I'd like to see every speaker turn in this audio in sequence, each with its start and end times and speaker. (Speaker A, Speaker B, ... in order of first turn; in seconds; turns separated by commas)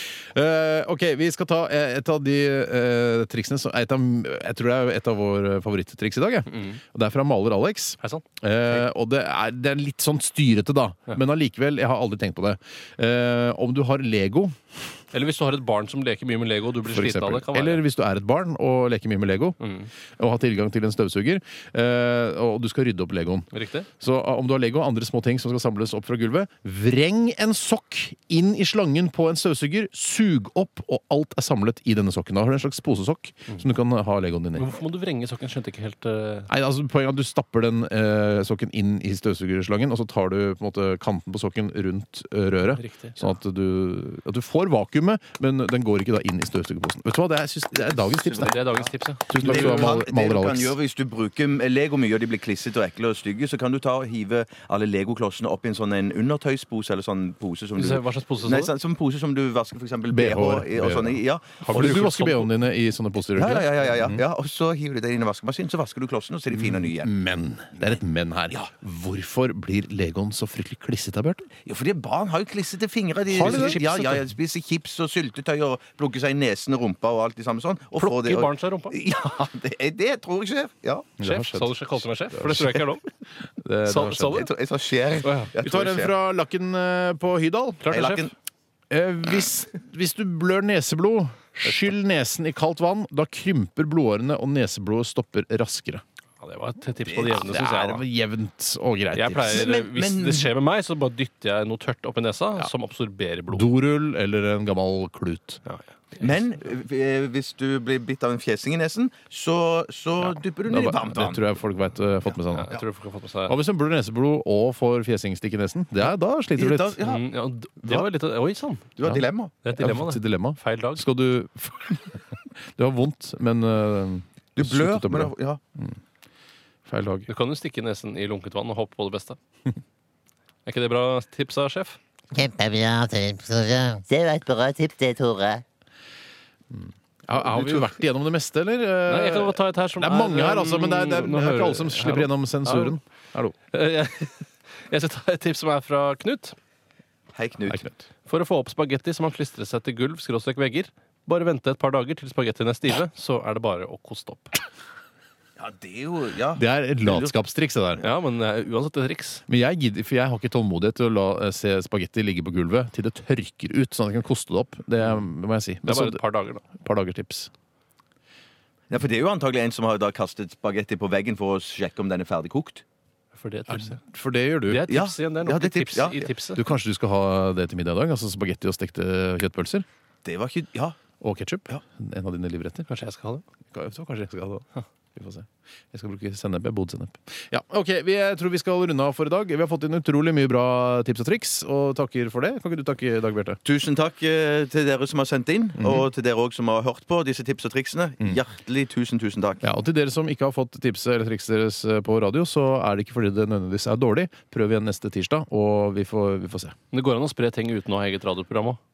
Speaker A: 0.3-14.6, Speaker B: 6.5-6.8, Speaker B: 15.1-17.8, Speaker A: 16.9-19.6, Speaker B: 19.6-19.9, Speaker A: 20.2-23.5, Speaker B: 23.5-23.9, Speaker A: 24.0-34.7, Speaker B: 34.6-36.5, Speaker A: 36.5-48.6, Speaker B: 42.7-43.3, Speaker C: 47.8-62.1, Speaker B: 48.4-50.0, Speaker A: 49.3-50.8, Speaker B: 57.8-58.7, Speaker A: 60.1-64.2, Speaker B: 61.6-62.5, Speaker C: 63.3-67.1, Speaker A: 66.5-71.5, Speaker C: 67.8-68.7, Speaker C: 71.7-81.1, Speaker A: 73.3-74.2, Speaker B: 73.4-73.9, Speaker B: 78.0-79.0, Speaker A: 81.2-82.9, Speaker B: 81.2-83.0, Speaker A: 83.6-84.5, Speaker B: 83.8-84.5, Speaker C: 84.3-86.2, Speaker B: 85.2-85.5, Speaker A: 85.6-87.9, Speaker B: 87.8-88.3, Speaker C: 87.9-88.3, Speaker A: 88.9-96.0, Speaker B: 91.7-91.9, Speaker B: 96.4-98.0, Speaker C: 97.0-97.9, Speaker A: 97.4-99.7, Speaker B: 99.1-103.7, Speaker C: 99.5-100.5, Speaker A: 103.5-105.6, Speaker B: 105.7-106.3, Speaker C: 106.2-111.5, Speaker A: 110.2-112.8, Speaker B: 112.5-113.5, Speaker A: 113.5-117.0, Speaker C: 116.6-117.3, Speaker B: 117.0-118.8, Speaker C: 119.0-119.5, Speaker A: 119.0-126.0, Speaker B: 119.6-121.1, Speaker C: 124.6-125.6, Speaker A: 126.9-127.3, Speaker B: 127.3-129.4, Speaker B: 130.7-132.0, Speaker D: 132.7-135.6, Speaker A: 136.7-143.6, Speaker B: 137.3-137.9, Speaker B: 139.1-143.0, Speaker B: 143.7-146.6, Speaker C: 147.3-147.9, Speaker A: 147.7-148.1, Speaker B: 148.3-154.6, Speaker C: 155.6-157.3, Speaker A: 156.5-158.0, Speaker B: 158.0-159.4, Speaker A: 159.5-166.2, Speaker B: 165.8-166.7, Speaker A: 166.7-167.5, Speaker C: 168.9-172.8, Speaker B: 173.3-174.0, Speaker A: 173.7-174.9, Speaker B: 174.7-176.6, Speaker C: 174.9-176.3, Speaker A: 176.6-179.8, Speaker C: 180.2-181.0, Speaker A: 181.2-182.9, Speaker B: 182.9-183.4, Speaker A: 183.7-193.6, Speaker C: 193.6-199.7, Speaker A: 195.8-196.1, Speaker A: 199.6-206.8, Speaker B: 206.9-208.8